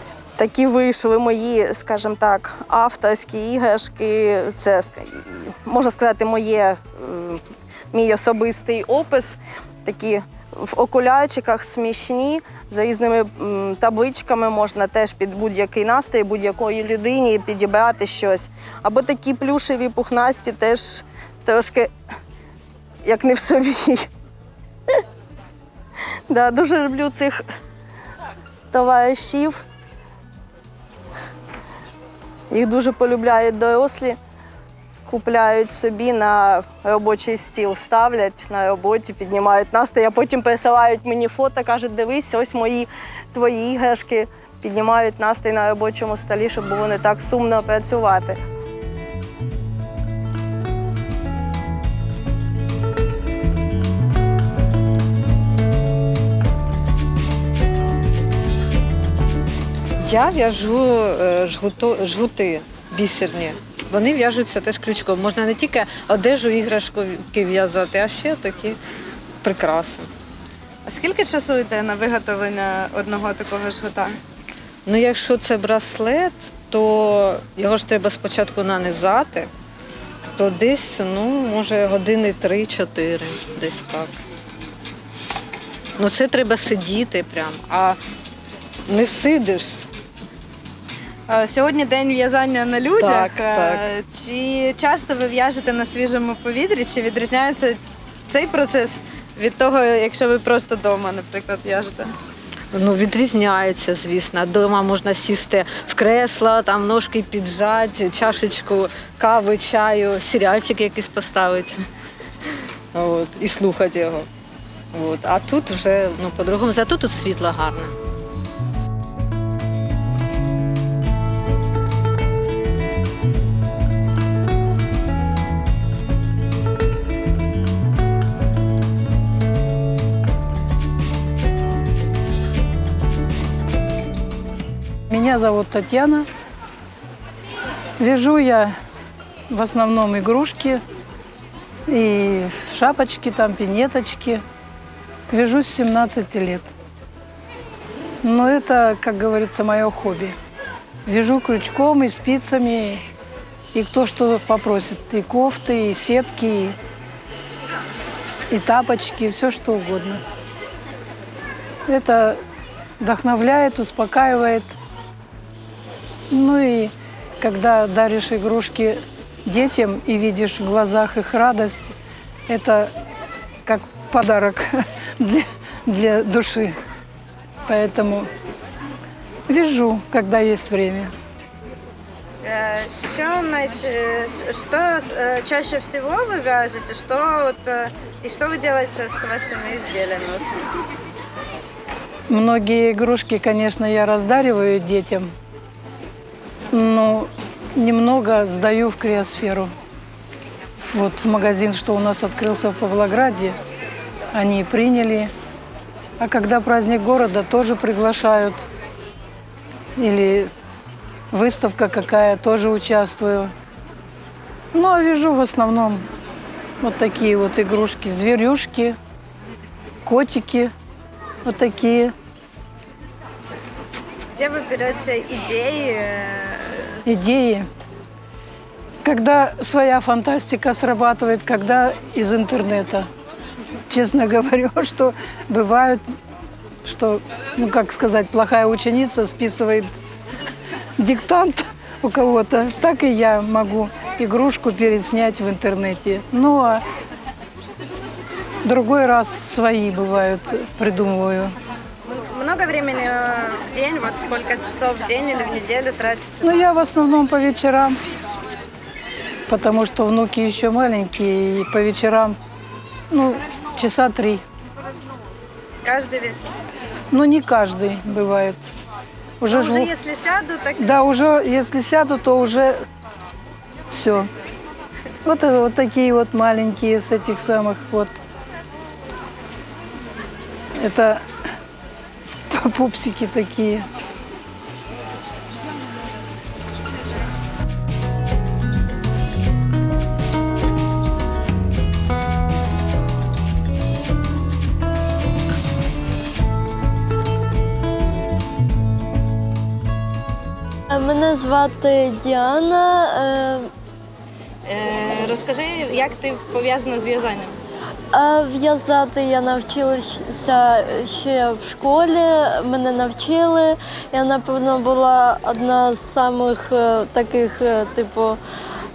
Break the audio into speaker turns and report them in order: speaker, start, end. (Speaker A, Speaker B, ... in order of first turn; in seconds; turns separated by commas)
Speaker A: 0.3-21.9, Speaker A: 23.0-24.0, Speaker A: 26.3-27.4, Speaker A: 28.7-29.6, Speaker A: 32.5-34.2, Speaker A: 35.0-48.4, Speaker B: 60.0-68.8, Speaker B: 69.4-70.1, Speaker C: 70.8-74.2, Speaker B: 74.8-79.5, Speaker B: 80.4-84.2, Speaker B: 86.0-88.0, Speaker B: 88.9-89.9, Speaker C: 91.3-102.1, Speaker B: 93.0-93.9, Speaker B: 102.7-111.8, Speaker B: 112.9-114.3, Speaker B: 114.9-117.9, Speaker D: 135.1-136.2, Speaker D: 138.0-138.7, Speaker D: 139.5-140.8, Speaker D: 141.9-144.4, Speaker D: 145.3-146.6, Speaker D: 148.2-150.3, Speaker D: 151.1-153.0, Speaker D: 153.7-156.7, Speaker D: 158.5-160.2, Speaker D: 161.9-162.4, Speaker D: 163.0-164.7, Speaker D: 166.3-171.9, Speaker D: 172.5-172.9, Speaker D: 173.7-174.6, Speaker D: 175.2-176.7, Speaker D: 177.7-178.3, Speaker D: 179.5-181.1, Speaker C: 182.4-190.6, Speaker D: 192.3-195.3, Speaker D: 196.7-199.7, Speaker D: 200.9-203.5, Speaker D: 204.3-205.3, Speaker D: 206.2-208.6, Speaker D: 210.0-210.5, Speaker D: 211.3-213.5, Speaker D: 214.7-216.0, Speaker D: 216.8-219.0, Speaker D: 220.1-220.7, Speaker D: 221.4-222.1, Speaker C: 224.3-226.8, Speaker D: 227.1-227.7, Speaker D: 229.0-233.1, Speaker D: 233.9-236.0, Speaker D: 236.8-239.9, Speaker D: 241.0-246.8, Speaker D: 248.7-251.5, Speaker C: 252.3-256.5, Speaker D: 256.5-257.9, Speaker D: 259.5-262.4, Speaker D: 263.1-264.4, Speaker C: 265.8-266.4, Speaker D: 267.1-268.6, Speaker C: 269.5-271.1, Speaker E: 269.6-269.9, Speaker D: 270.8-272.7, Speaker D: 273.9-274.2, Speaker D: 275.2-278.1, Speaker D: 280.8-281.2, Speaker D: 282.6-283.8, Speaker E: 300.9-303.7, Speaker C: 304.7-307.5, Speaker E: 308.1-318.4